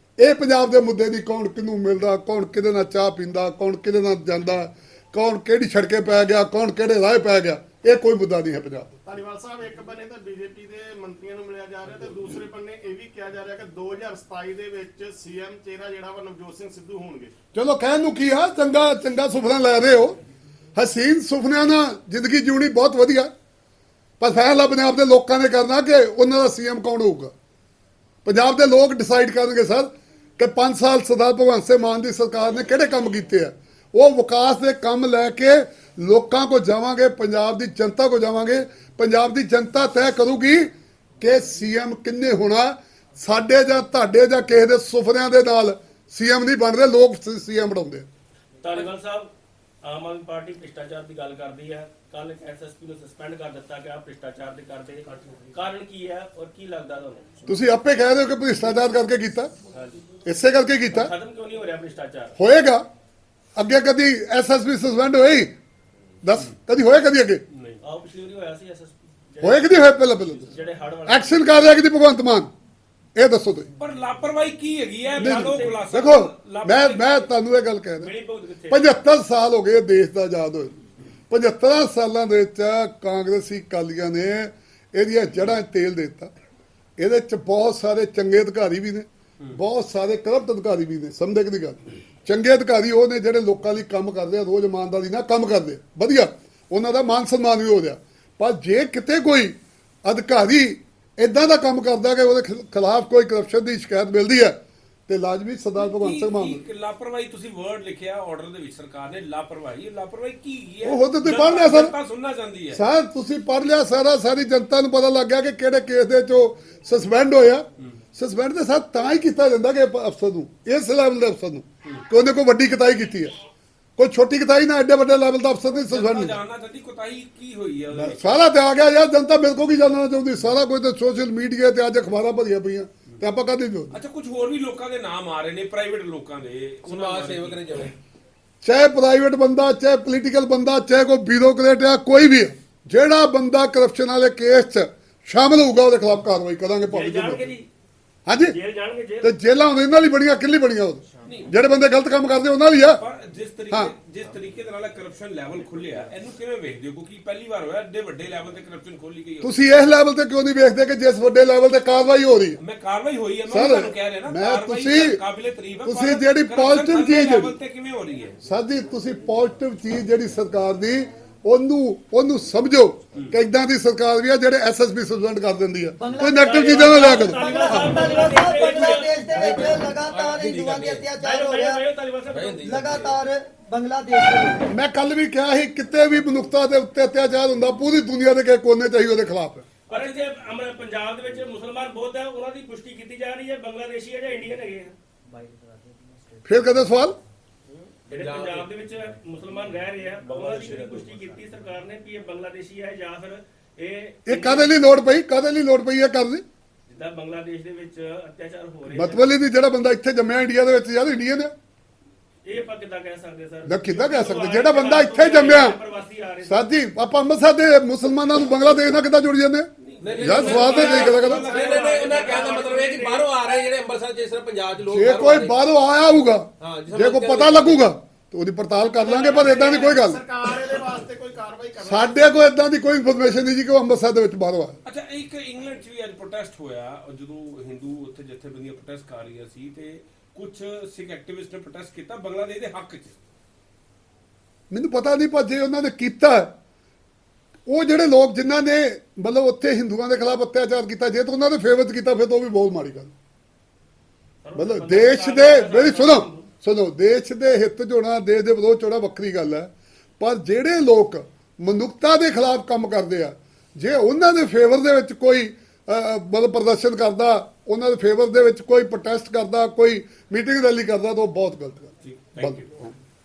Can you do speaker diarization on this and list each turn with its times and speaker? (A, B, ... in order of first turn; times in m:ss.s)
0:00.2-0:09.0 A
0:09.0-0:17.3 B
0:17.5-0:20.2 A
0:20.7-0:23.3 A
0:24.2-0:27.3 A
0:28.2-0:48.0 A
0:48.6-0:57.4 C
0:57.5-0:59.5 A
0:59.7-1:00.0 C
1:00.2-1:01.1 A
1:00.9-1:02.3 C
1:02.4-1:02.8 A
1:03.6-1:05.5 A
1:06.2-1:07.4 A
1:07.5-1:07.8 D
1:07.8-1:11.4 C
1:09.4-1:10.5 A
1:11.0-1:12.5 A
1:13.2-1:13.7 A
1:13.8-1:17.3 D
1:15.1-1:15.8 C
1:15.2-1:18.1 A
1:18.0-1:18.9 C
1:18.7-1:20.8 A
1:21.3-1:26.3 A
1:27.0-1:44.6 A
1:45.1-1:46.6 A
1:45.8-1:52.8 D
1:50.8-1:51.9 A
1:52.7-2:03.3 A
2:04.0-2:06.4 A
2:05.8-2:08.4 D
2:07.9-2:13.9 A
2:13.9-2:17.9 D
2:16.8-2:17.9 E
2:18.6-2:27.5 A
2:26.9-2:27.7 C
2:28.3-2:28.6 A
2:28.4-2:29.3 C
2:29.2-2:33.0 A
2:31.2-2:31.5 D
2:32.8-2:39.6 D
2:39.4-2:42.6 A
2:42.6-2:48.4 D
2:43.5-2:45.2 A
2:45.8-2:47.5 A
2:48.4-2:58.0 A
2:56.0-3:01.8 F
2:56.4-2:59.1 C
2:58.6-3:01.1 E
3:01.2-3:02.7 C
3:02.3-3:03.2 E
3:02.6-3:04.7 F
3:04.7-3:09.6 A
3:09.9-3:10.2 E
3:09.9-3:15.0 C
3:16.4-3:17.2 A
3:17.7-3:18.7 E
3:18.1-3:24.7 C
3:20.2-3:21.2 E
3:24.3-3:26.4 A
3:26.9-3:29.3 C
3:28.9-3:31.5 A
3:32.4-3:36.6 C
3:33.6-3:35.8 A
3:36.4-3:39.7 A
3:39.8-3:42.6 D
3:40.0-3:45.6 E
3:40.2-3:41.4 A
3:40.5-3:43.3 C
3:44.9-3:50.2 A
3:46.6-3:47.9 E
3:48.9-3:52.4 B
3:51.8-3:54.8 A
3:54.8-4:03.2 D
4:04.7-4:06.5 A
4:07.7-4:13.1 A
4:14.4-4:16.5 C
4:14.5-4:32.9 A
4:32.0-4:32.7 D